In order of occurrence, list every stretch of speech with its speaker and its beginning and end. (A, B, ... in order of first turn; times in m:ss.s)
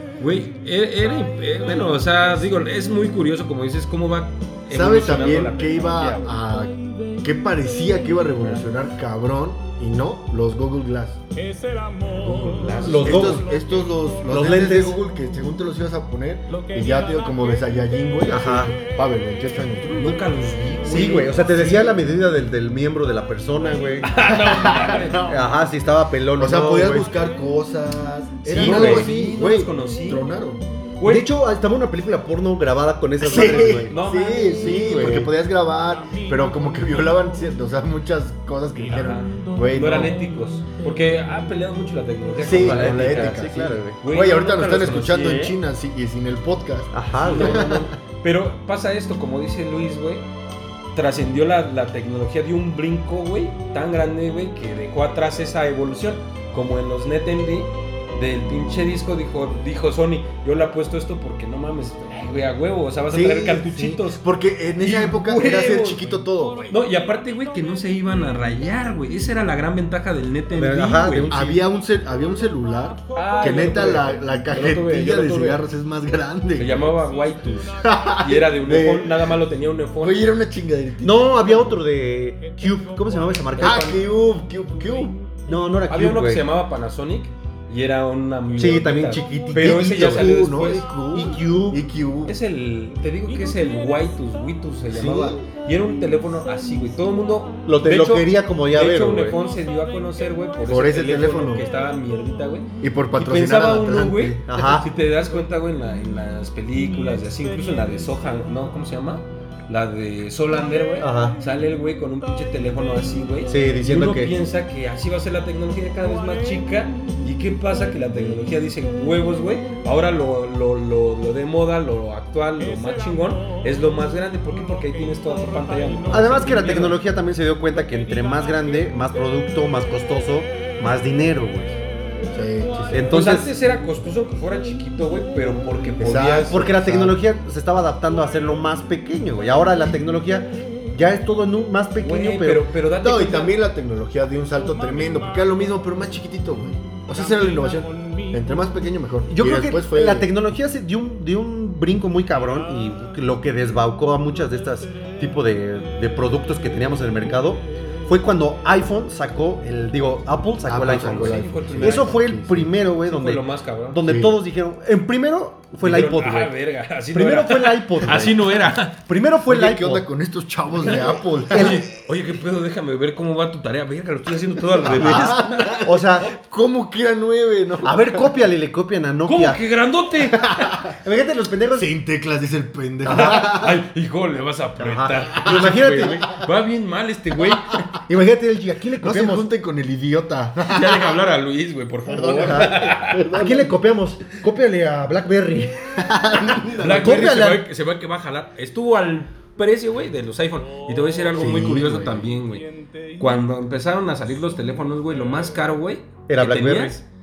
0:00.2-0:06.3 A
0:04.7-0:11.2 B
0:12.1-0:20.2 B
0:12.5-0:13.4 A
0:12.8-0:13.5 C
0:14.2-0:15.0 C
0:18.3-0:18.7 C
0:19.8-0:22.0 A
0:20.8-0:24.1 C
0:24.0-0:25.4 A
0:24.2-0:25.4 B
0:25.2-0:27.1 C
0:26.4-0:30.6 B
0:28.5-0:30.2 A
0:28.5-0:29.2 C
0:31.0-0:31.3 A
0:31.0-0:34.0 C
0:33.2-0:40.1 B
0:33.6-0:35.1 A
0:34.5-0:35.3 C
0:38.9-0:43.4 A
0:42.4-0:47.9 B
0:42.4-0:44.0 C
0:44.0-0:45.6 A
0:46.9-0:47.8 C
0:47.2-0:50.2 A
0:50.9-1:04.2 A
1:03.1-1:06.8 B
1:04.8-1:11.3 A
1:10.5-1:11.6 C
1:11.3-1:16.8 B
1:13.1-1:15.6 A
1:16.6-1:20.3 A
1:17.7-1:19.3 B
1:20.0-1:21.7 B
1:21.0-1:24.0 C
1:23.6-1:23.9 A
1:23.6-1:25.3 B
1:25.4-1:26.4 C
1:25.9-1:30.8 A
1:28.5-1:30.5 C
1:29.5-1:32.4 B
1:31.1-1:31.8 C
1:32.2-2:07.0 A
1:34.9-1:35.4 B
1:37.6-1:39.4 C
1:40.6-1:41.6 B
1:42.8-1:44.7 B
1:44.4-1:44.9 C
1:51.0-1:51.4 C
1:53.5-1:54.3 C
2:06.1-2:11.8 C
2:12.3-2:13.0 B
2:12.9-2:13.5 C
2:13.0-2:16.7 A
2:16.0-2:17.2 B
2:16.3-2:22.7 C
2:22.0-2:23.6 A
2:23.0-2:30.3 B
2:29.3-2:46.5 C
2:40.6-2:42.7 B
2:40.9-2:42.2 A
2:43.0-2:44.0 A
2:44.0-2:44.3 B
2:45.8-2:49.0 A
2:47.1-2:50.0 C
2:49.4-2:51.9 B
2:50.8-2:55.9 A
2:50.9-2:51.8 C
2:54.8-2:58.3 B
2:54.8-2:56.3 C
2:57.8-2:59.6 C
2:59.2-3:00.9 A
3:00.3-3:00.9 B
3:00.9-3:01.9 C
3:01.7-3:03.8 B
3:03.0-3:03.5 C
3:03.0-3:07.9 A
3:04.8-3:06.4 C
3:05.5-3:06.2 B
3:08.1-3:09.5 C
3:09.0-3:11.2 B
3:10.6-3:13.2 A
3:12.0-3:13.8 B
3:12.3-3:17.6 C
3:15.9-3:17.4 B
3:16.8-3:27.0 A
3:21.3-3:22.3 B
3:26.3-3:27.0 C